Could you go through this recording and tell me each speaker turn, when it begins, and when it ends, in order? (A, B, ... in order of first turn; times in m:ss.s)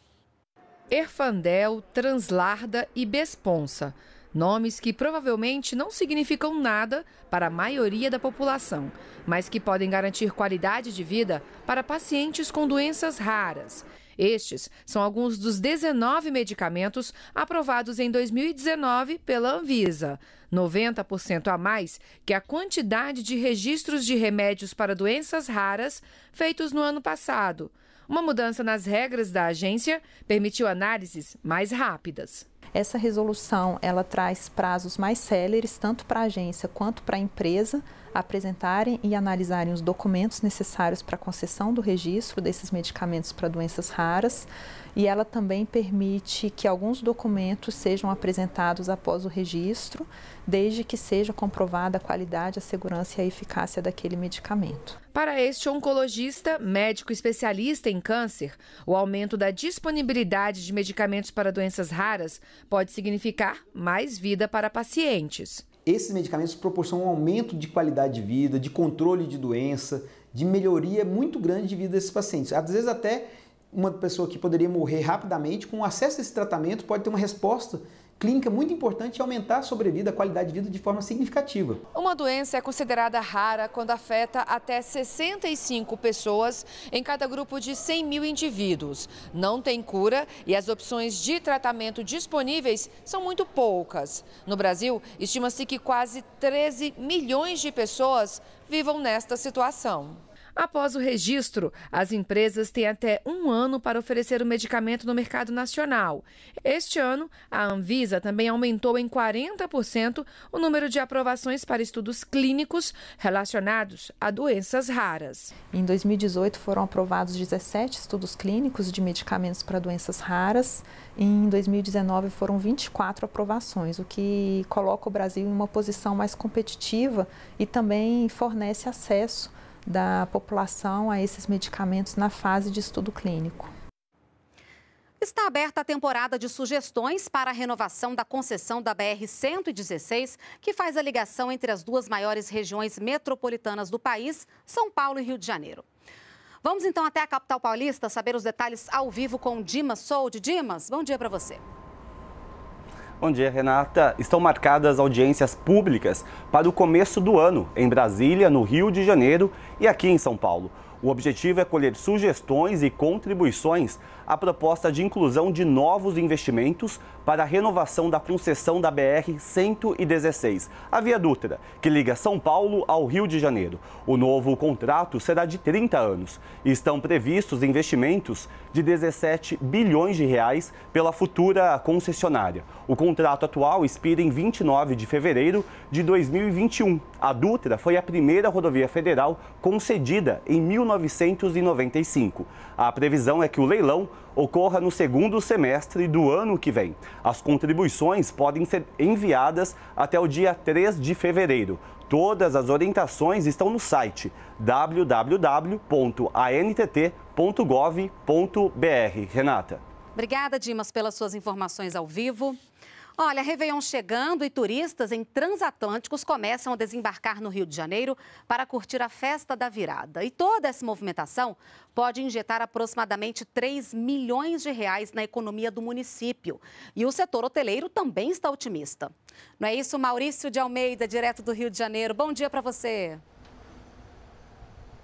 0:00.9-0:32.4 A
0:32.7-0:55.0 B
0:55.1-1:05.6 A
1:05.8-1:21.8 C
1:22.0-1:55.5 A
1:55.7-2:13.7 B
2:15.2-2:25.8 D
2:26.6-2:31.6 D
2:33.2-3:29.8 E
3:30.2-3:32.6 D
3:33.2-3:53.2 D